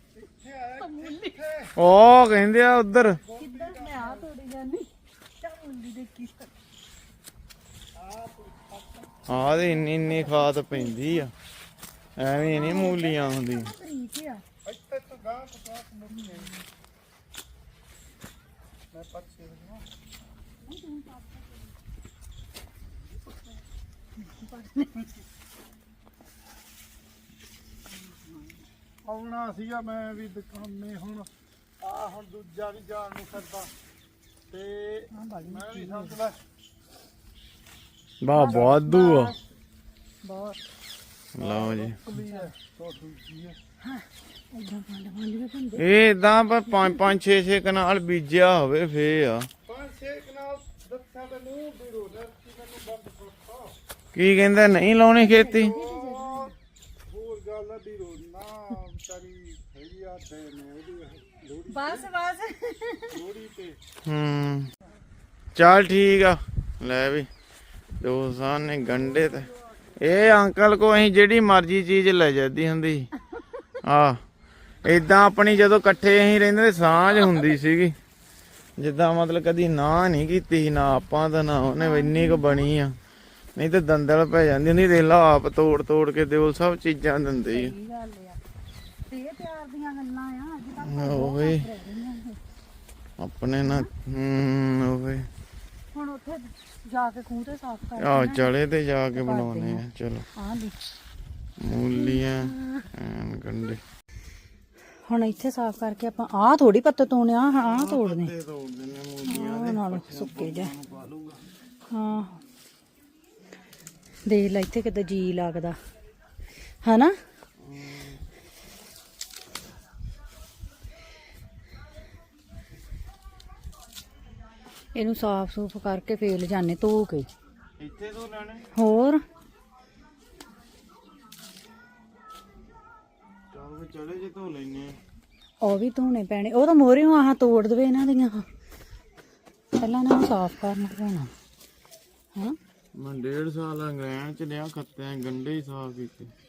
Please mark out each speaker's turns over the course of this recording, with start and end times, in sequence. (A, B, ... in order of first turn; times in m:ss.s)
0:00.2-0:01.8 A
0:00.8-0:01.4 B
0:01.8-0:03.2 C
0:03.2-0:04.3 A
0:03.4-0:06.5 B
0:08.0-0:10.9 A
0:09.3-0:11.3 C
0:10.1-0:10.3 B
0:12.2-0:13.7 C
0:12.5-0:14.4 B
0:14.6-0:16.6 A
0:16.1-0:16.6 B
0:18.9-0:19.9 A
0:20.7-0:21.6 B
0:24.2-0:25.1 B
0:28.1-0:28.5 B
0:29.0-0:31.3 A
0:31.8-0:33.7 A
0:34.5-0:36.4 A
0:35.1-0:36.2 B
0:38.2-0:39.4 C
0:38.3-0:39.4 B
0:40.2-0:40.6 B
0:41.4-0:42.0 C
0:41.4-0:43.6 A
0:42.1-0:42.5 B
0:43.8-0:45.9 B
0:45.8-0:49.5 C
0:46.7-0:47.0 B
0:49.7-0:53.8 A
0:54.1-0:55.8 C
0:55.2-0:56.5 B
0:55.6-0:56.5 A
0:57.1-1:02.1 A
1:01.7-1:03.2 B
1:03.1-1:03.8 A
1:04.0-1:04.7 C
1:05.6-1:07.3 C
1:08.0-1:13.1 C
1:08.9-1:09.6 A
1:13.8-1:14.2 C
1:14.8-1:18.0 C
1:18.8-1:23.0 C
1:21.8-1:22.7 B
1:23.6-1:27.8 C
1:27.5-1:28.4 B
1:29.1-1:32.4 B
1:30.8-1:31.7 C
1:33.2-1:35.3 C
1:33.6-1:33.9 B
1:35.9-1:38.5 B
1:38.0-1:40.3 C
1:39.2-1:39.8 B
1:40.4-1:41.0 B
1:41.6-1:43.8 C
1:41.9-1:42.9 B
1:45.1-1:48.3 B
1:47.5-1:51.4 C
1:49.3-1:50.7 B
1:51.9-1:52.4 B
1:54.2-1:55.8 B
1:56.8-1:57.2 B
1:57.6-1:58.2 C
2:04.9-2:07.3 B
2:07.8-2:08.7 C
2:08.8-2:09.2 B
2:13.5-2:15.0 C
2:15.6-2:18.5 B
2:19.8-2:21.3 B
2:23.0-2:26.3 C